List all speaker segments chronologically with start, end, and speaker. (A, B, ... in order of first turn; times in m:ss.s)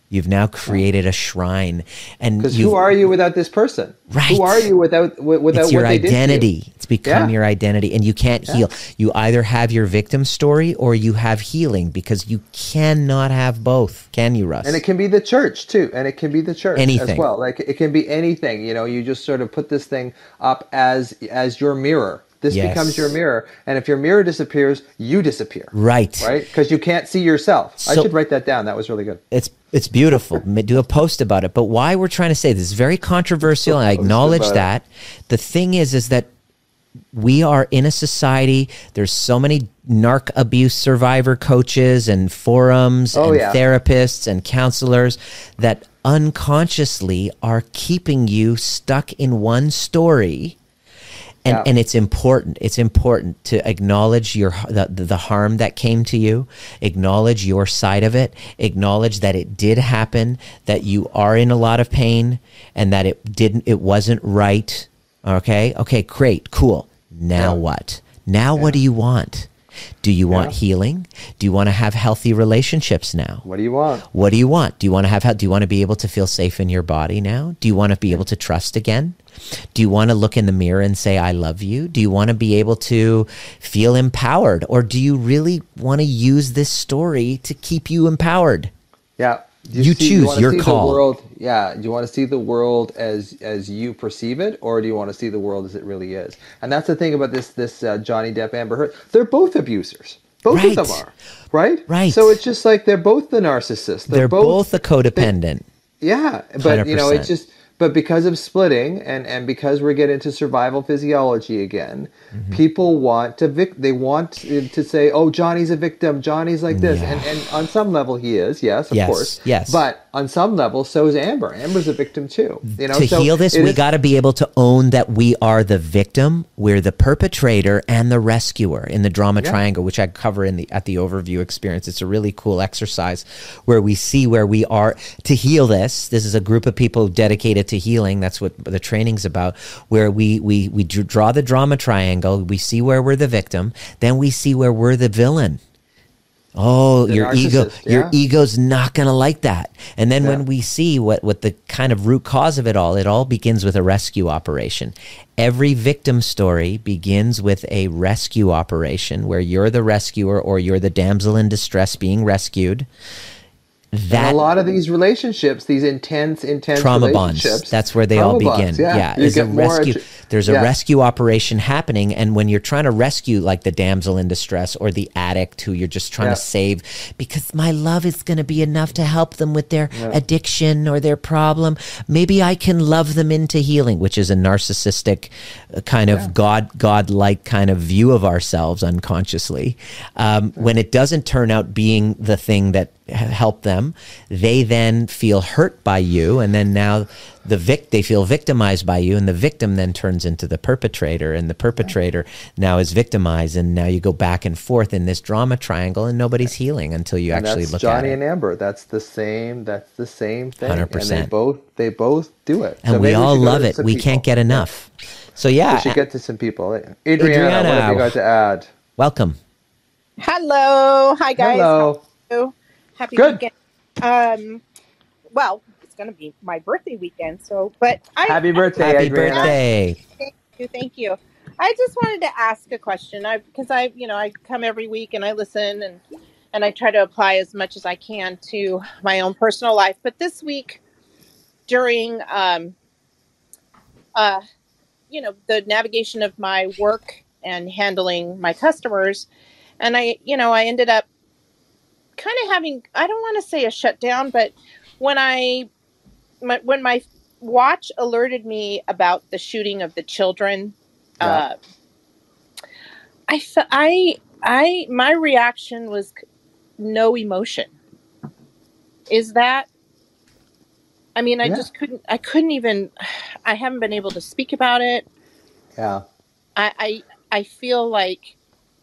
0:00.1-0:02.8 A
0:02.4-0:06.4 B
0:04.1-0:04.6 A
0:05.5-0:14.8 A
0:07.0-0:07.3 B
0:14.6-0:29.2 B
0:16.7-0:17.3 A
0:22.5-0:23.1 A
0:25.7-0:26.3 A
0:27.8-0:28.1 A
0:29.3-0:36.3 A
0:33.6-0:34.6 B
0:37.1-0:50.6 A
0:43.1-0:43.6 B
0:51.4-1:09.5 A
1:10.0-1:13.4 A
1:10.3-1:10.5 B
1:13.4-1:14.0 B
1:14.1-1:19.2 A
1:19.7-1:28.7 A
1:29.2-1:44.6 B
1:29.7-1:31.0 A
1:40.5-1:41.0 A
1:41.9-1:42.4 A
1:44.1-1:45.6 A
1:46.0-2:03.8 B
1:46.6-1:47.3 A
1:52.3-1:52.6 A
1:56.7-1:57.3 A
1:58.9-1:59.8 A
2:02.7-2:25.6 A
2:26.5-2:42.9 A
2:27.1-2:28.1 B
2:43.9-2:44.4 A
2:44.1-2:50.7 B
2:46.7-3:28.2 A
2:59.9-3:00.2 B
3:27.3-3:34.6 B
3:30.6-3:31.3 A
3:32.8-3:36.0 A
3:35.7-3:38.7 B
3:37.2-3:38.2 A
3:39.0-3:39.4 A
3:40.2-3:44.6 C
3:41.4-3:42.0 B
3:43.1-3:43.4 B
3:45.3-3:48.7 C
3:48.2-3:49.6 B
3:48.8-3:50.0 A
3:49.3-3:49.6 C
3:50.2-3:56.0 C
3:56.5-4:00.8 C
4:01.7-4:02.7 C
4:04.1-4:04.4 C
4:05.1-4:09.3 C
4:09.8-4:11.0 C
4:12.2-4:15.7 C
4:16.4-4:21.5 C
4:23.3-4:26.2 C
4:26.8-4:27.7 C
4:29.1-4:29.7 C
4:31.2-4:35.0 C
4:35.8-4:36.0 B
4:36.6-4:38.3 C